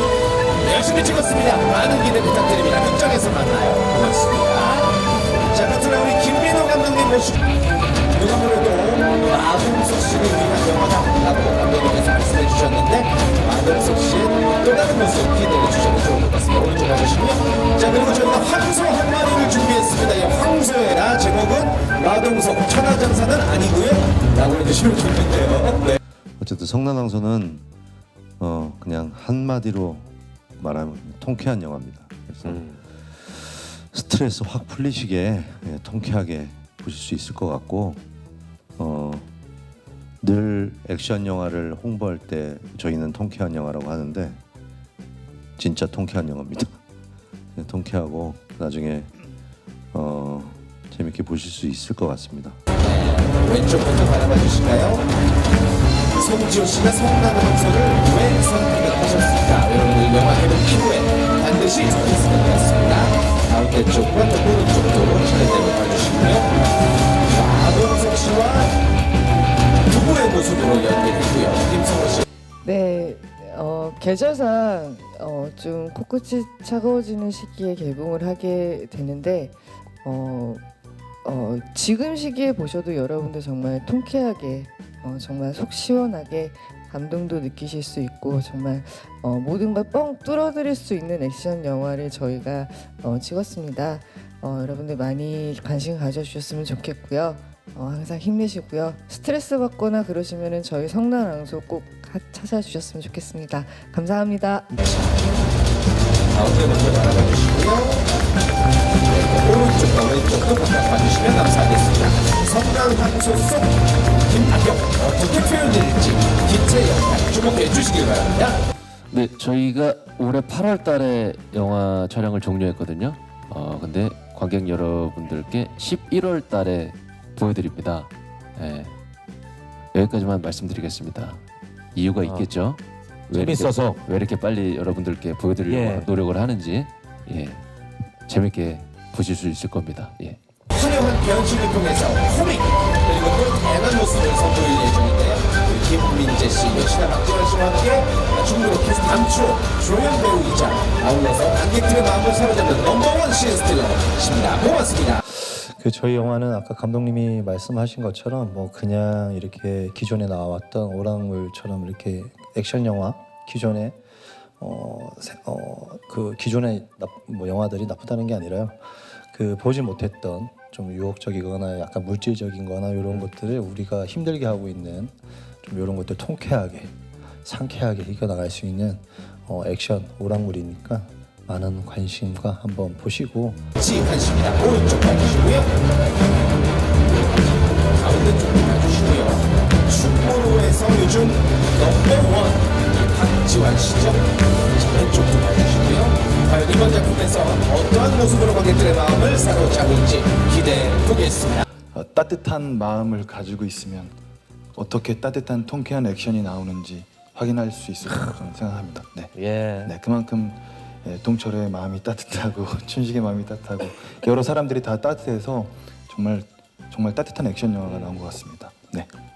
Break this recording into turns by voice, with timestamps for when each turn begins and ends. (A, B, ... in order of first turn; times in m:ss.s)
0:00.6-0:04.9 A
0:05.5-0:07.4 A
0:08.1-0:26.0 A
0:26.4-0:27.7 B
0:28.4-0:38.0 B
0:38.8-0:39.3 B
0:40.2-0:44.4 B
0:45.6-0:46.8 B
0:47.6-0:49.2 B
0:49.9-0:52.6 B
0:52.8-0:55.1 A
0:56.1-1:06.5 A
1:07.3-1:08.8 A
1:09.8-1:12.2 A
1:12.6-1:20.6 C
1:21.2-1:44.8 C
1:46.3-1:48.1 A
1:49.1-1:58.6 A
1:59.1-2:08.9 D
2:09.9-2:11.4 D
2:11.9-2:17.6 D
2:13.3-2:13.7 A
2:18.3-2:20.4 D
2:20.7-2:35.2 A
2:35.3-2:44.0 E
2:44.6-3:03.6 E
3:03.8-3:05.7 A
3:07.9-3:21.6 A
3:21.9-3:24.1 F
3:24.7-3:39.1 F
3:29.4-3:29.9 D